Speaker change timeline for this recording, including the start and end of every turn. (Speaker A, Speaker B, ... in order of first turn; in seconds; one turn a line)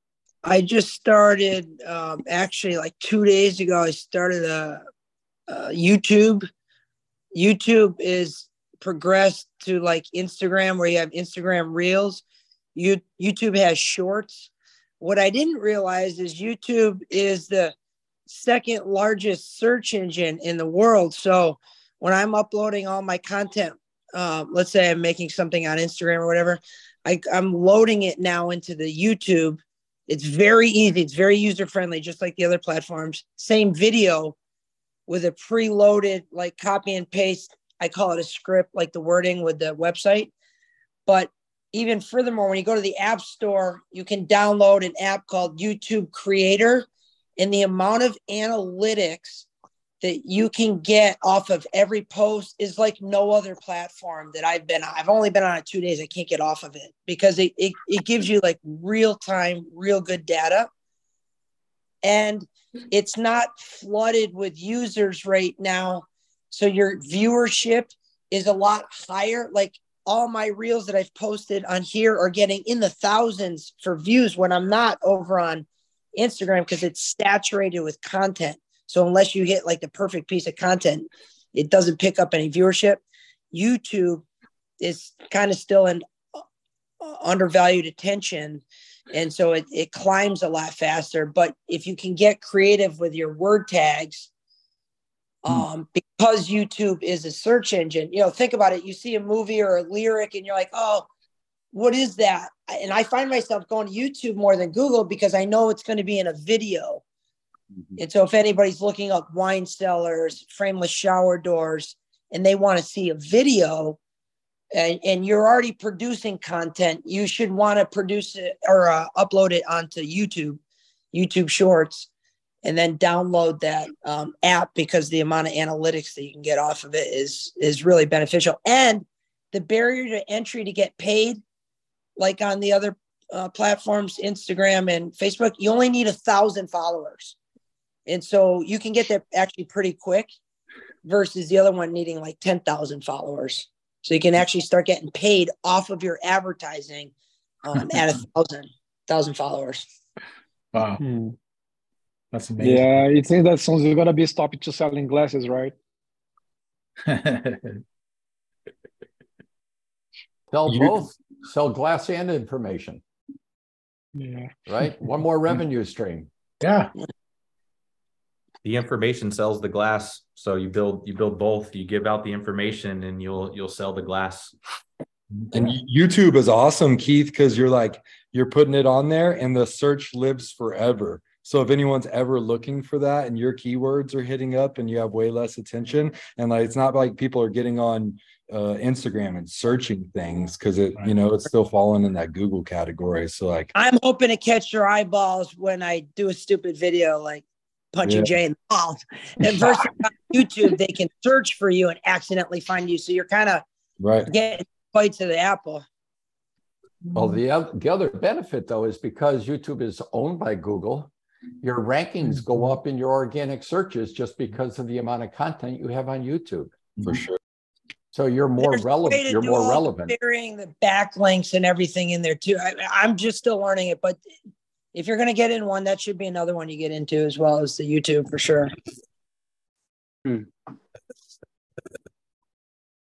Speaker A: 0.4-4.8
Speaker A: 5.5-6.5
Speaker A: 7.3-12.2
Speaker A: 12.8-17.7
Speaker A: 18.3-34.4
Speaker A: 35.1-40.3
Speaker A: 41.1-46.9
Speaker A: 47.4-49.5
Speaker A: 50.0-60.7
Speaker A: 62.0-84.2
Speaker A: 84.8-86.0
Speaker A: 87.0-94.3
Speaker A: 95.4-101.1
Speaker A: 101.7-107.0
Speaker A: 108.0-114.0
Speaker A: 114.7-120.6
Speaker A: 121.1-122.1
Speaker A: 122.6-131.4
Speaker A: 132.2-137.4
Speaker A: 138.1-140.3
Speaker A: 141.0-147.1
Speaker A: 147.6-149.9
Speaker B: 150.7-151.0
Speaker C: 151.0-151.3
Speaker B: 152.3-153.0
Speaker C: 152.6-155.7
Speaker B: 157.1-157.8
Speaker D: 160.5-163.0
Speaker C: 164.2-164.5
Speaker D: 164.7-166.3
Speaker B: 166.6-166.9
Speaker E: 168.6-174.5
Speaker B: 175.4-175.7
Speaker F: 175.5-193.7
Speaker A: 193.8-203.7
Speaker F: 198.0-198.3
Speaker F: 204.0-204.3
Speaker A: 204.3-205.9
Speaker D: 207.2-211.1
Speaker D: 211.6-216.7
Speaker D: 218.1-220.2
Speaker A: 218.6-224.2
Speaker A: 224.9-228.7